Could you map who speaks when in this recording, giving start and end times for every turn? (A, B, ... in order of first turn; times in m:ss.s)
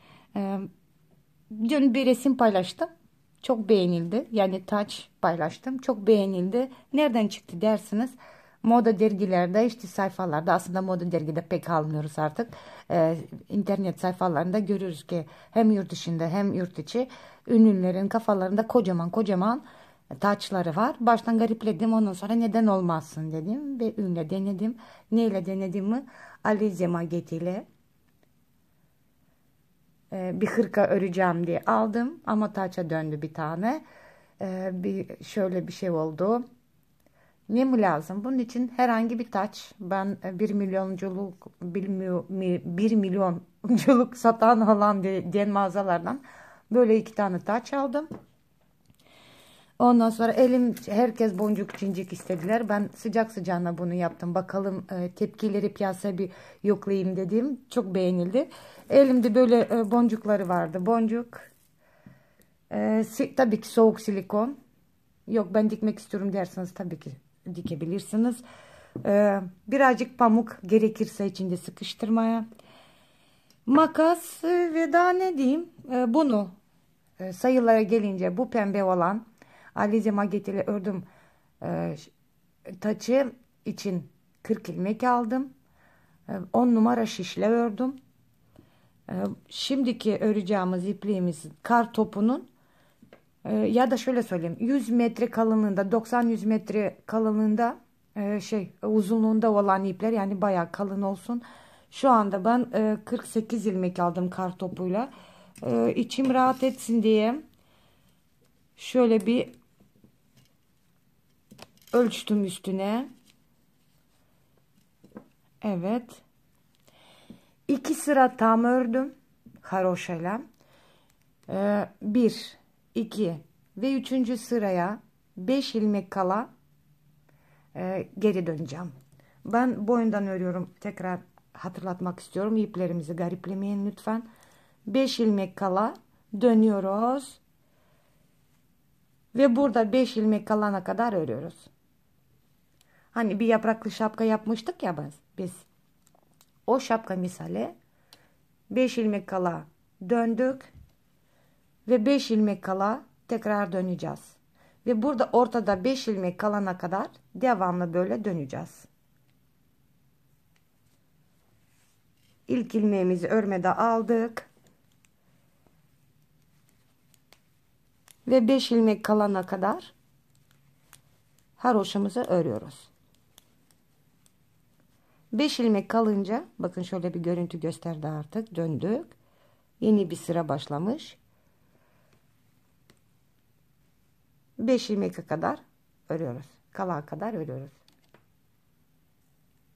0:00.3-0:00.7 A
0:01.5-0:02.9 A
0:03.4-0:19.6 A
0:20.2-0:27.7 A
0:30.1-0:33.8 A
0:34.4-0:36.4 A
0:37.5-0:48.1 A
0:49.8-1:01.5 A
1:02.7-1:04.6 A
1:05.3-1:08.4 A
1:09.0-1:12.5 A
1:13.7-1:16.5 A
1:17.2-1:19.2 A
1:19.8-1:21.1 A
1:21.6-1:22.1 A
1:22.7-1:25.5 A
1:26.3-1:28.0 A
1:29.1-1:32.5 A
1:33.4-1:45.1 A
1:45.6-1:47.4 A
1:48.8-1:49.5 A
1:51.9-1:53.1 A
1:55.6-1:56.2 A
1:57.7-2:00.4 A
2:01.5-2:06.5 A
2:07.8-2:08.9 A
2:09.4-2:14.3 A
2:14.9-2:17.4 A
2:19.3-2:21.7 A
2:23.1-2:25.6 A
2:26.7-2:27.7 A
2:28.7-2:30.7 A
2:31.9-2:38.9 A
2:42.5-2:44.5 A
2:48.3-2:49.9 A
2:51.6-2:52.9 A
2:55.3-2:59.2 A
2:59.8-3:01.2 A
3:04.6-3:07.8 A